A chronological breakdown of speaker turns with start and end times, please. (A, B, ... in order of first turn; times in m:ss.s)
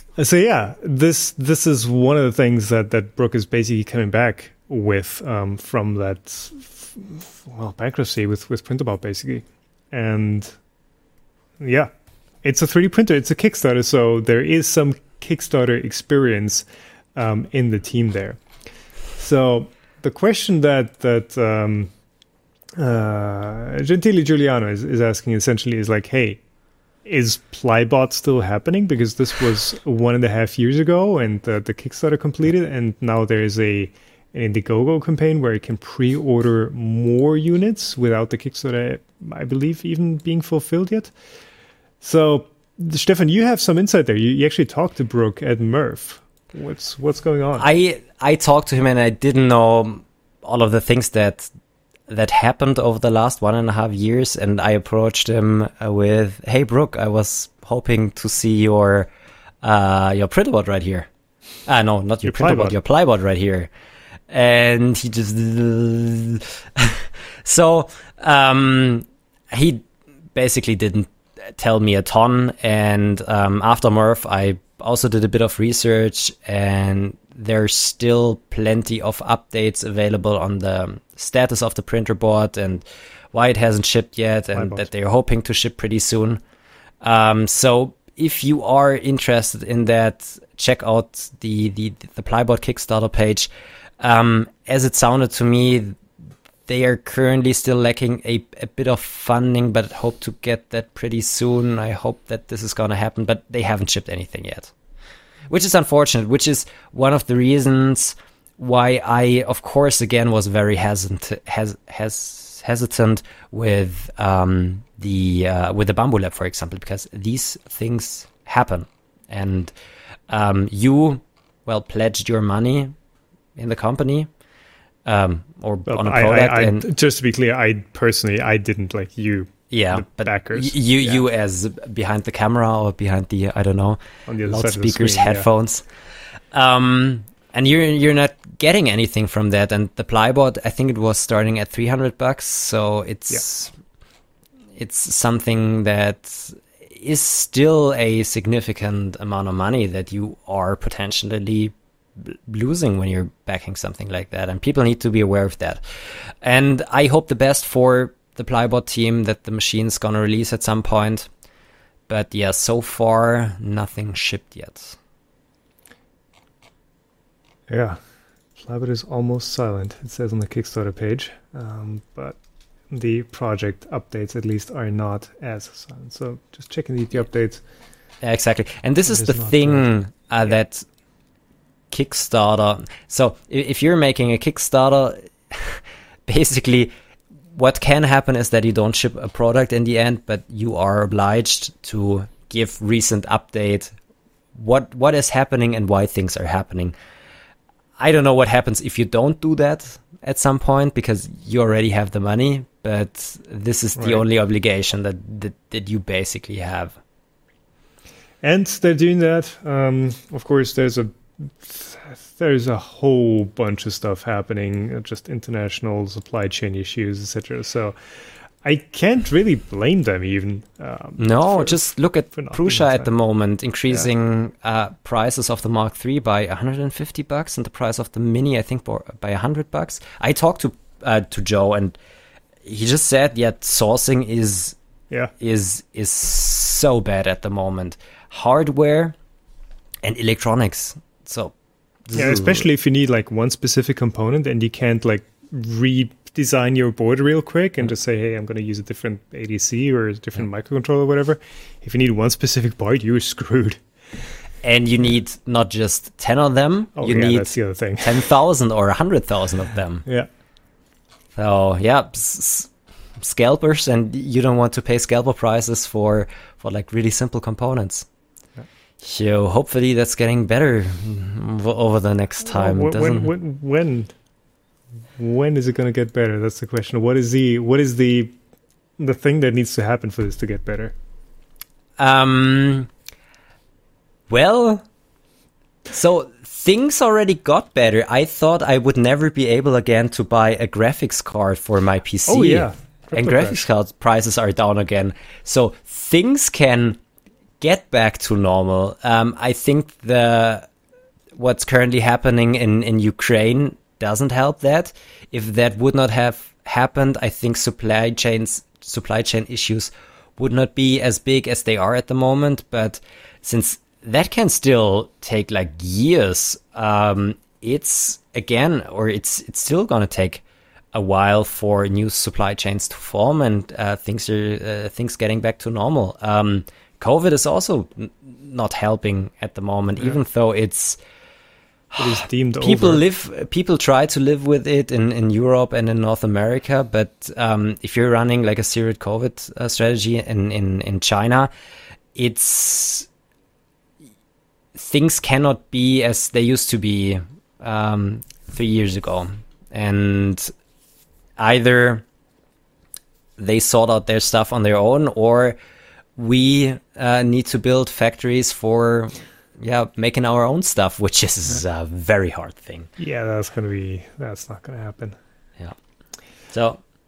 0:00.2-0:10.6 A
0:11.6-0:11.9 A
0:12.4-0:16.6 A
0:17.2-0:18.4 A
0:19.2-0:21.9 A
0:22.8-0:26.4 A
0:27.0-0:41.1 A
0:42.0-0:47.6 A
0:47.6-0:51.5 B
0:52.1-0:59.1 B
0:59.6-1:01.1 B
1:01.7-1:03.7 B
1:02.2-1:02.8 A
1:04.3-1:26.4 B
1:24.5-1:24.9 A
1:27.0-1:33.5 B
1:34.0-1:36.0 B
1:36.7-1:44.7 B
1:45.5-1:59.7 B
2:00.3-2:02.9 B
2:03.6-2:04.3 B
2:05.0-2:06.9 B
2:05.9-2:11.2 A
2:09.7-2:15.8 B
2:14.3-2:15.5 A
2:16.5-2:23.7 B
2:24.8-2:35.8 B
2:36.4-2:41.3 B
2:42.1-2:45.0 B
2:47.7-2:48.0 A
2:48.6-2:52.4 A
2:52.9-2:57.6 A
2:58.2-3:00.9 B
2:59.1-2:59.9 A
3:01.9-3:06.9 B
3:07.6-3:13.9 B
3:14.6-3:16.9 B
3:18.0-3:27.0 B
3:24.0-3:24.2 A
3:28.4-3:41.8 A
3:41.2-3:52.0 B
3:42.4-3:43.1 A
3:52.7-3:54.8 B
3:55.4-3:59.2 B
4:00.0-4:01.5 B
4:02.1-4:02.6 B
4:02.2-4:13.8 A
4:14.6-4:20.0 B
4:17.0-4:18.3 A
4:21.4-4:28.1 B
4:29.0-4:33.3 B
4:32.4-4:34.1 A
4:35.2-4:38.4 A
4:39.0-4:40.9 A
4:42.0-4:42.9 B
4:44.3-4:44.8 B
4:45.9-4:57.0 B
4:52.3-4:53.6 A
4:57.6-5:00.7 B
5:01.4-5:20.4 B
5:20.9-5:31.0 B
5:31.9-5:41.5 B
5:32.0-5:33.0 A
5:42.2-5:43.1 B
5:44.8-5:50.5 B
5:51.4-5:52.0 B
5:53.4-5:55.6 B
5:56.2-6:02.9 B
6:03.0-6:05.2 A
6:06.5-6:06.8 B